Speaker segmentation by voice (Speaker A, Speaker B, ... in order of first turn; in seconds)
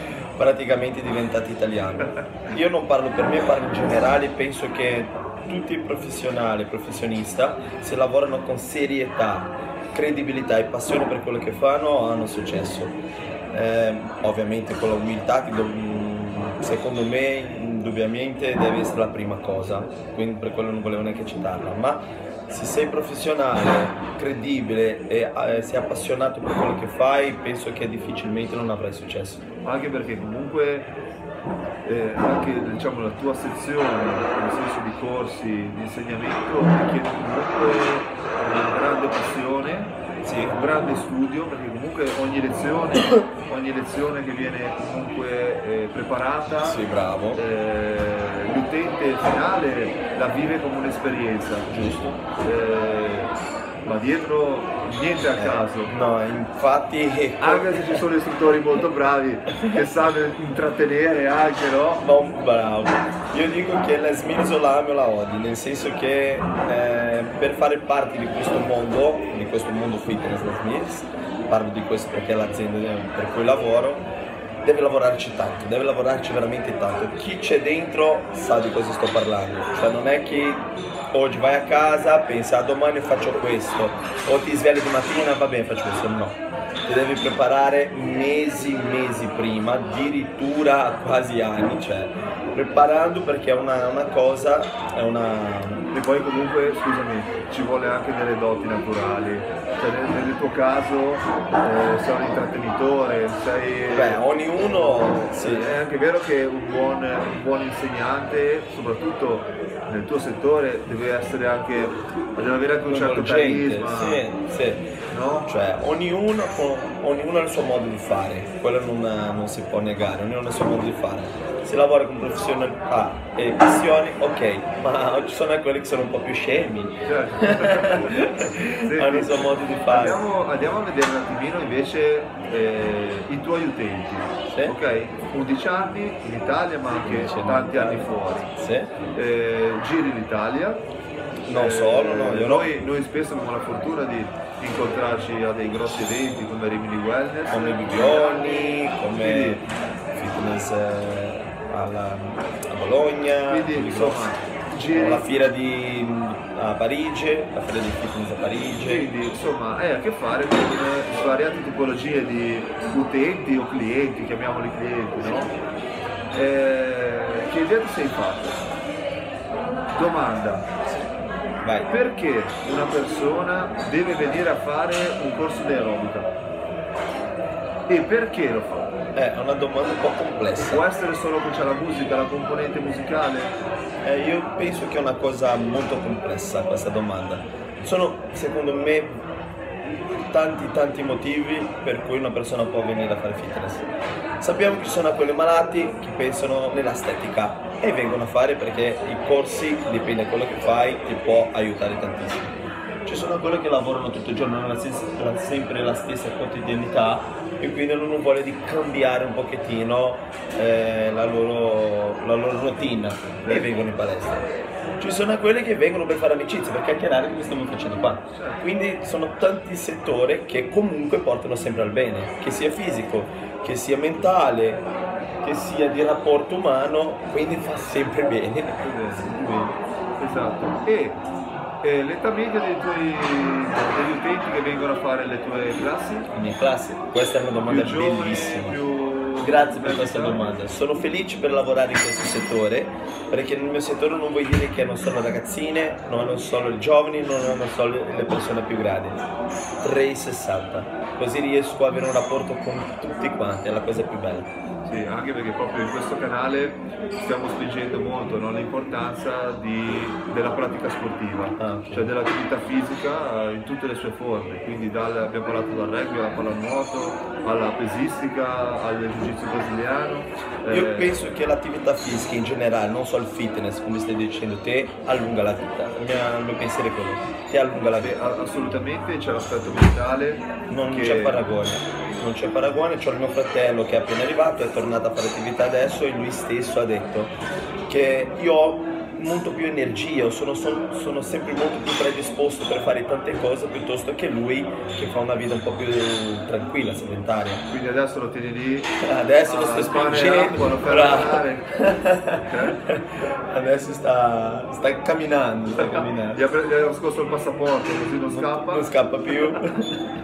Speaker A: 0.4-13.0, 13.5-29.4, 40.2-40.7, 46.6-47.4, 51.7-52.2, 55.4-58.0, 62.0-74.1, 74.6-95.9, 103.9-105.8, 112.9-114.9, 115.5-130.2, 134.5-134.7, 137.0-138.9, 141.4-142.8, 147.5-154.3, 154.9-159.1, 171.6-171.9, 179.1-180.8, 184.0-189.2, 190.3-193.9, 194.4-224.8, 225.4-229.7, 236.3-238.8, 239.4-249.2, 249.8-254.5, 261.6-262.1, 270.7-278.1, 280.7-287.3, 287.9-297.6, 299.0-306.4, 308.3-309.9
Speaker B: 29.6-30.9, 31.8-46.8, 47.3-51.7, 52.4-55.9, 57.4-62.0, 95.9-114.2, 115.1-115.5, 127.0-128.2, 128.8-138.5, 139.1-140.8, 141.5-149.6, 153.5-155.3, 158.8-165.5, 166.3-168.6, 169.9-170.7, 171.9-176.3, 177.9-178.9, 180.6-183.5, 213.4-213.7, 218.3-218.7, 228.8-229.4, 230.2-231.2, 231.8-236.3, 237.7-240.5, 254.8-271.2, 277.9-281.4, 297.7-301.7, 302.4-302.8, 305.8-308.9